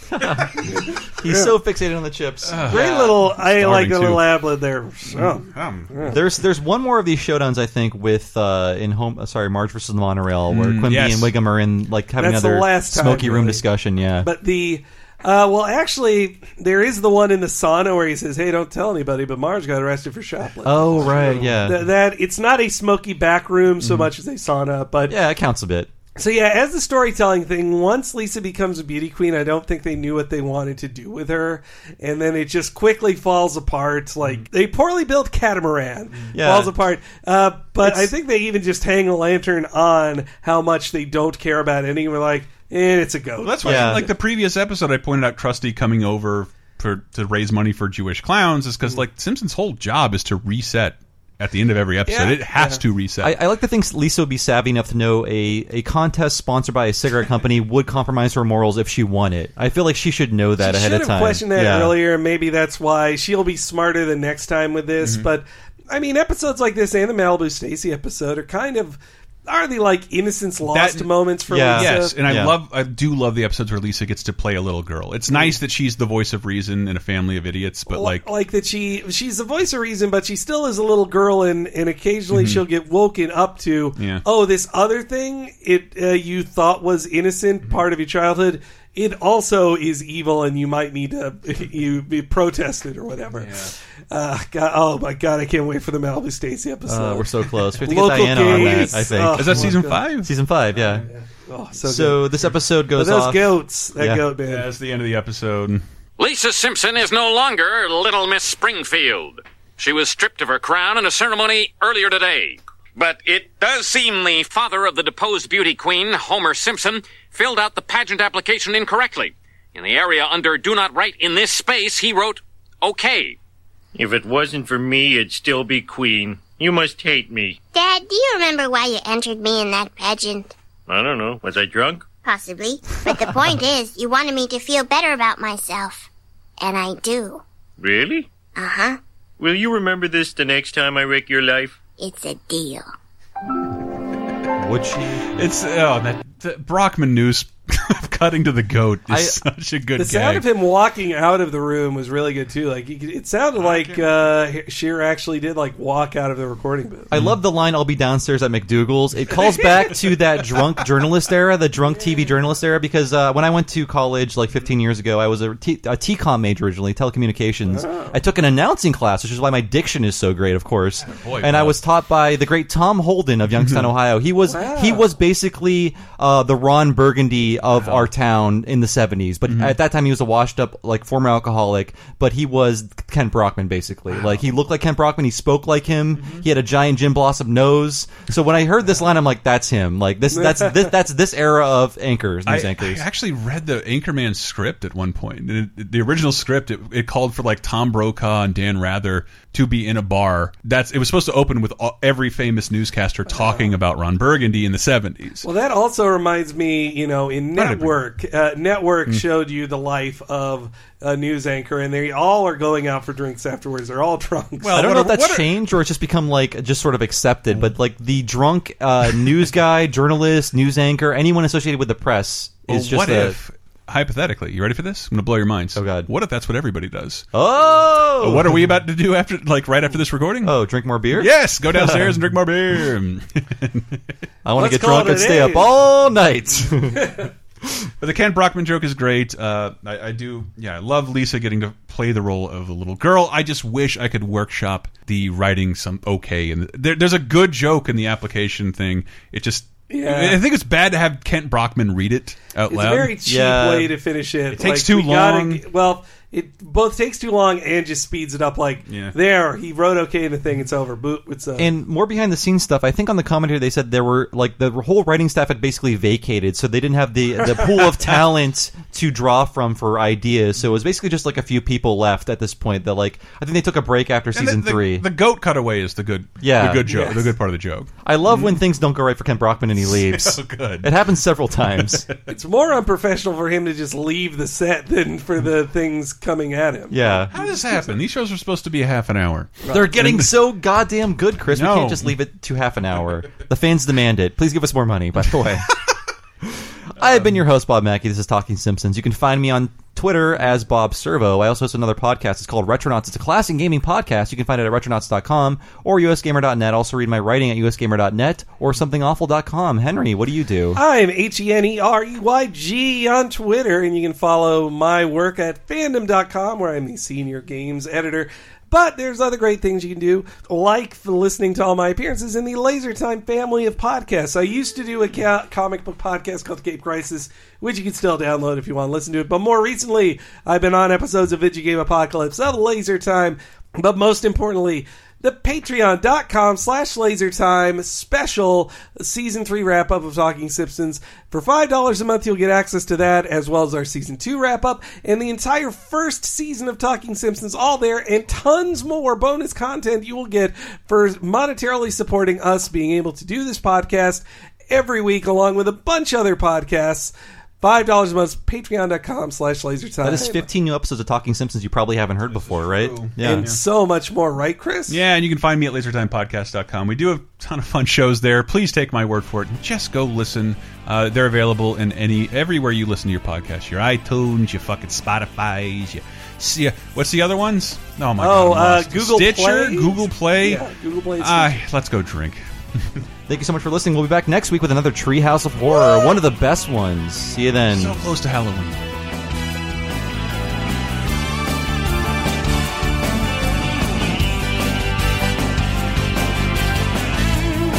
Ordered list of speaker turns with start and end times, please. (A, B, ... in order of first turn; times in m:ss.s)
0:00.2-0:02.9 A
0:00.7-0:01.5 B
0:02.5-0:04.3 C
0:02.7-0:06.2 B
0:05.1-0:06.2 C
0:06.1-0:14.3 A
0:10.5-0:11.3 C
0:12.2-0:13.6 B
0:14.2-0:25.2 B
0:20.6-0:21.8 A
0:25.1-0:25.9 A
0:26.2-0:44.1 B
0:36.3-0:36.7 A
0:37.8-0:38.1 A
0:43.4-0:53.4 C
0:43.6-0:44.1 A
0:52.1-0:52.8 B
0:53.2-1:02.0 A
1:00.6-1:12.2 B
1:05.0-1:05.3 C
1:10.6-1:11.2 C
1:11.5-1:12.6 A
1:11.8-1:18.3 C
1:15.3-1:15.6 B
1:17.9-1:33.6 B
1:22.3-1:22.6 C
1:24.0-1:24.2 C
1:33.4-1:33.7 C
1:34.1-1:37.3 B
1:36.9-1:41.1 A
1:37.8-1:40.0 B
1:38.4-1:41.1 C
1:41.1-1:42.3 B
1:41.8-1:44.2 A
1:43.0-1:44.7 B
1:44.5-1:45.8 C
1:46.2-2:03.4 D
2:04.0-2:07.6 E
2:07.7-2:10.5 F
2:10.9-2:12.0 E
2:12.2-2:16.1 F
2:16.6-2:17.4 F
2:17.8-2:18.3 E
2:18.6-2:19.0 F
2:19.4-2:21.8 E
2:22.0-2:22.9 F
2:24.6-2:25.3 A
2:25.3-2:30.5 C
2:29.1-2:29.4 A
2:30.0-2:37.1 B
2:33.6-2:34.2 C
2:37.1-3:13.0 A
2:37.1-2:37.4 C
2:47.7-2:48.2 B
2:51.1-2:51.8 C
2:53.6-2:53.9 C
2:54.5-2:55.1 B
2:57.7-2:58.1 C
2:59.5-2:59.8 C
3:04.1-3:04.4 C
3:06.2-3:06.4 C
3:10.3-3:10.9 B
3:12.5-3:25.5 C
3:23.3-3:23.7 B
3:25.4-3:34.7 B
3:27.6-3:28.0 C
3:34.6-3:35.6 C
3:34.7-3:43.4 A
3:42.7-3:47.3 C
3:45.8-3:46.1 A
3:47.3-3:48.6 A
3:48.2-3:50.6 C
3:50.4-3:52.2 A
3:51.1-3:54.0 C
3:54.4-3:57.1 A
3:54.6-3:55.7 B
3:58.0-4:13.2 C
4:09.9-4:10.4 B
4:12.7-4:21.7 B
4:13.2-4:13.9 A
4:14.5-4:15.6 C
4:18.9-4:19.1 C
4:21.6-4:35.1 A
4:27.9-4:28.3 C
4:34.3-4:38.6 C
4:36.4-4:36.9 A
4:36.9-4:37.3 B
4:38.0-4:42.1 A
4:39.8-4:40.9 C
4:41.7-4:42.3 C
4:42.3-4:47.9 B
4:46.9-4:47.3 A
4:47.3-4:50.3 C
4:49.7-4:55.7 A
4:51.5-4:52.2 C
4:56.4-5:10.8 A
5:10.8-6:00.4 B
6:00.0-6:03.5 A
6:02.2-6:03.6 C
6:03.2-6:05.0 B
6:04.9-6:20.6 C
6:18.2-6:21.6 B
6:21.2-6:23.0 C
6:23.3-6:28.0 A
6:27.7-6:28.8 C